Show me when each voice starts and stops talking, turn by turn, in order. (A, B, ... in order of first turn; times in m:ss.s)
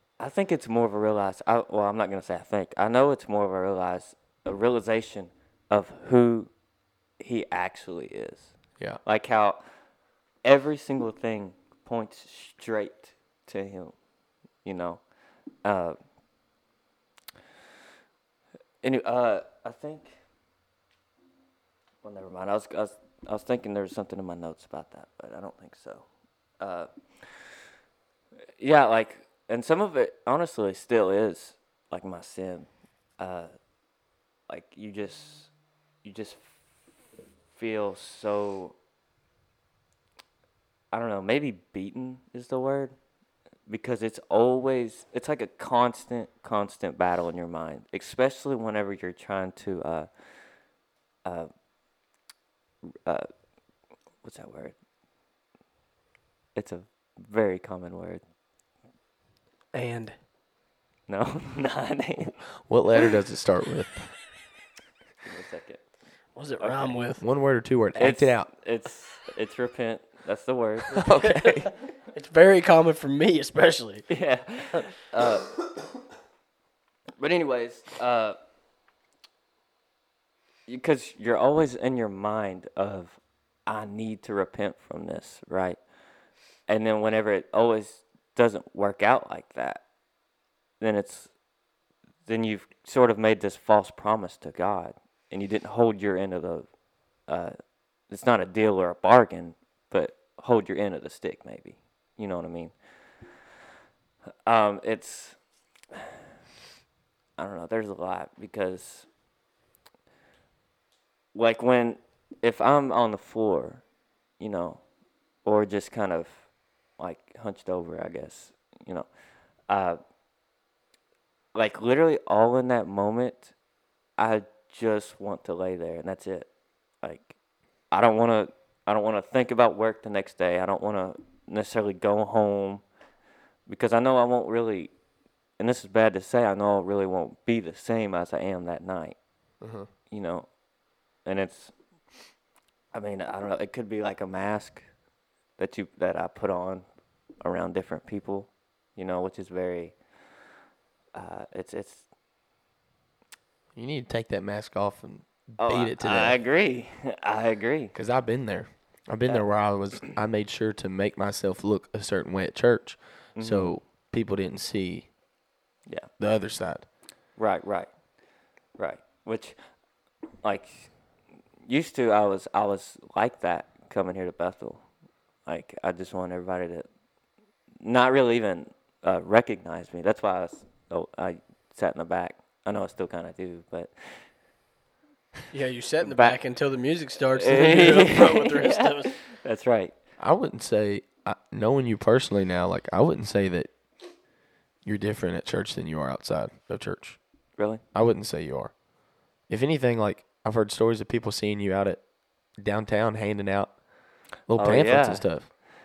0:00.2-0:06.5 A
0:07.2-0:09.6 A
0:10.4-0:13.9 A
0:14.6-0:15.0 A
0:15.6-0:16.0 A
0:18.8-0:20.1 A
0:22.0-0:26.0 A
0:26.6-0:26.9 A
0:28.6-0:32.7 A
0:33.2-0:33.5 A
0:34.5-0:35.5 A
0:36.0-0:36.5 A
0:37.6-0:38.8 A
0:40.9-0:42.9 A
0:43.7-0:50.1 A
0:54.2-0:54.8 A
0:56.5-0:58.2 A
0:59.7-1:00.1 B
1:01.1-1:02.4 A
1:02.7-1:04.1 C
1:05.2-1:05.8 A
1:06.4-1:07.2 B
1:06.6-1:07.0 A
1:07.2-1:08.5 C
1:08.0-1:11.1 A
1:10.9-1:11.7 C
1:11.2-1:14.0 B
1:14.1-1:15.6 A
1:17.2-1:18.4 A
1:20.7-1:25.8 A
1:26.7-1:29.8 A
1:30.8-1:31.3 A
1:32.2-1:36.7 A
1:37.3-1:37.5 A
1:38.1-1:42.7 A
1:44.4-1:45.4 A
1:47.4-1:49.1 A
1:51.3-1:53.8 A
1:54.4-1:54.8 A
1:55.4-1:56.3 A
1:57.0-1:59.1 A
1:59.7-2:00.0 A
2:01.5-2:03.5 A
2:04.2-2:06.5 A
2:07.0-2:07.3 A
2:07.9-2:12.8 A
2:13.7-2:14.9 A
2:15.6-2:19.2 A
2:19.6-2:19.9 C
2:20.1-2:20.5 A
2:21.2-2:21.7 A
2:22.9-2:24.8 A
2:25.6-2:26.8 A
2:27.4-2:29.9 A
2:31.1-2:32.0 A
2:33.7-2:36.4 C
2:35.6-2:37.9 A
2:37.9-2:45.1 C
2:43.4-2:43.7 A
2:46.2-2:46.8 C
2:47.4-2:47.9 A
2:48.8-2:49.6 A
2:50.4-2:50.9 A
2:51.6-2:54.8 A
2:55.4-2:56.8 A
2:57.8-3:04.2 A
3:05.5-3:09.1 B
3:06.0-3:06.3 A
3:07.3-3:09.9 A
3:10.2-3:13.7 C
3:14.8-3:17.2 C
3:17.6-3:17.8 A
3:17.9-3:18.7 C
3:19.5-3:22.0 C
3:22.6-3:23.7 C
3:24.5-3:25.5 C
3:24.5-3:25.3 A